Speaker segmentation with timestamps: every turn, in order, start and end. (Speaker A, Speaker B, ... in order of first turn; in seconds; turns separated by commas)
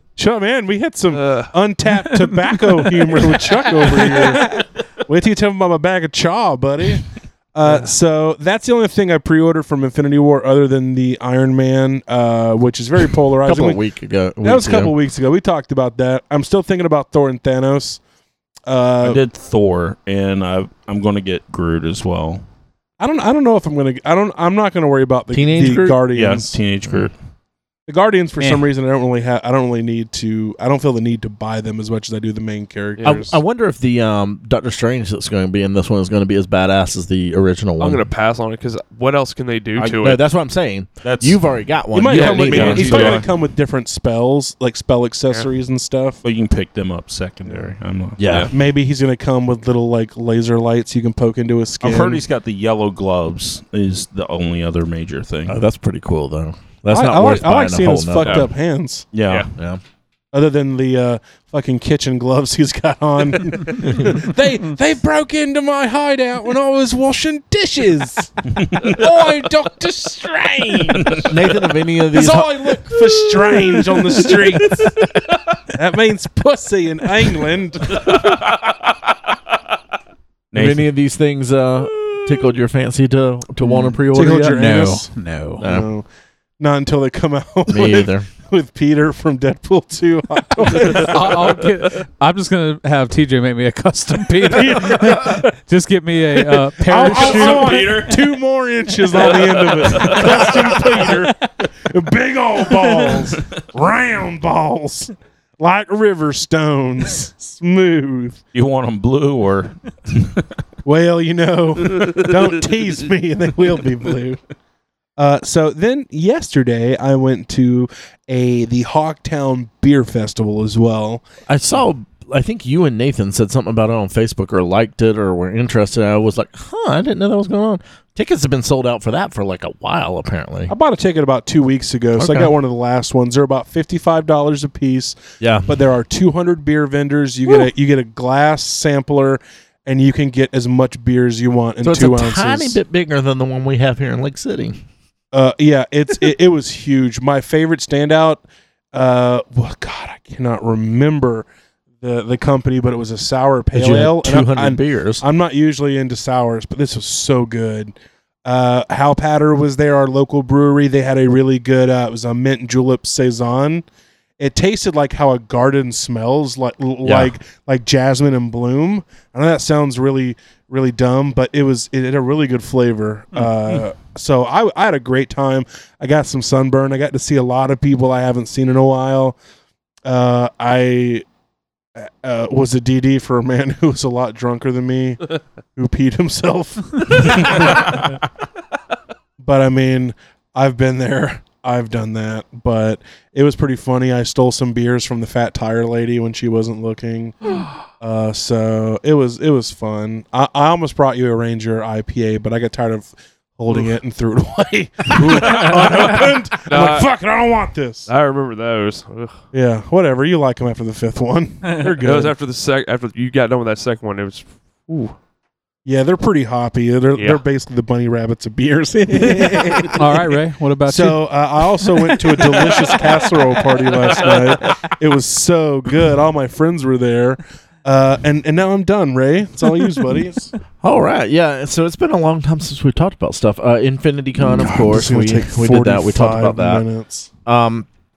Speaker A: 0.2-13.8, Speaker B: 1.1-1.5, Speaker C: 2.0-2.4, Speaker D: 13.4-14.9, Speaker A: 14.4-18.0, Speaker A: 18.7-19.2, Speaker E: 19.0-22.4, Speaker A: 23.0-26.6, Speaker D: 25.3-26.0, Speaker E: 26.1-27.1, Speaker A: 27.9-33.4, Speaker C: 28.4-28.7, Speaker B: 33.0-33.3, Speaker D: 33.0-38.1, Speaker B: 37.8-40.2, Speaker D: 40.0-43.1, Speaker E: 41.0-41.4, Speaker A: 41.9-46.2, Speaker B: 42.1-43.3, Speaker E: 42.3-43.3, Speaker E: 46.2-48.5, Speaker D: 48.2-48.5, Speaker A: 48.5-52.2, Speaker E: 51.8-55.6, Speaker D: 55.5-58.5, Speaker A: 56.9-59.1, Speaker E: 59.1-59.5, Speaker D: 59.5-59.8, Speaker A: 60.3-71.2, Speaker E: 68.6-69.0, Speaker E: 70.9-71.3, Speaker D: 71.3-72.9, Speaker A: 72.1-74.9, Speaker A: 75.7-78.2, Speaker E: 78.0-78.9, Speaker E: 80.5-80.9, Speaker D: 80.5-84.6, Speaker A: 84.1-85.1, Speaker C: 84.3-85.6, Speaker D: 85.6-85.9, Speaker A: 85.6-86.1, Speaker A: 86.6-91.7, Speaker D: 87.7-88.3, Speaker C: 90.8-98.0, Speaker A: 94.4-95.5, Speaker A: 96.8-108.4, Speaker B: 97.1-98.2, Speaker B: 99.2-101.0, Speaker E: 108.5-110.5, Speaker A: 110.8-114.4, Speaker A: 115.2-121.2, Speaker D: 121.5-130.7, Speaker A: 130.7-142.8, Speaker D: 132.2-132.5, Speaker D: 135.4-135.7, Speaker D: 141.8-144.8, Speaker A: 145.3-151.5, Speaker A: 152.0-163.8, Speaker D: 153.7-155.2, Speaker A: 164.4-179.4, Speaker D: 167.0-167.3, Speaker A: 180.1-181.2, Speaker A: 182.0-188.2, Speaker A: 189.4-208.1, Speaker B: 205.1-207.1, Speaker B: 208.1-209.3, Speaker A: 209.5-212.3, Speaker B: 212.0-215.1, Speaker A: 215.8-220.2, Speaker B: 217.2-217.4, Speaker C: 219.8-221.2, Speaker A: 220.9-230.5, Speaker B: 222.6-223.0, Speaker B: 223.9-224.7, Speaker D: 230.8-236.8, Speaker A: 234.4-237.3, Speaker D: 237.5-237.9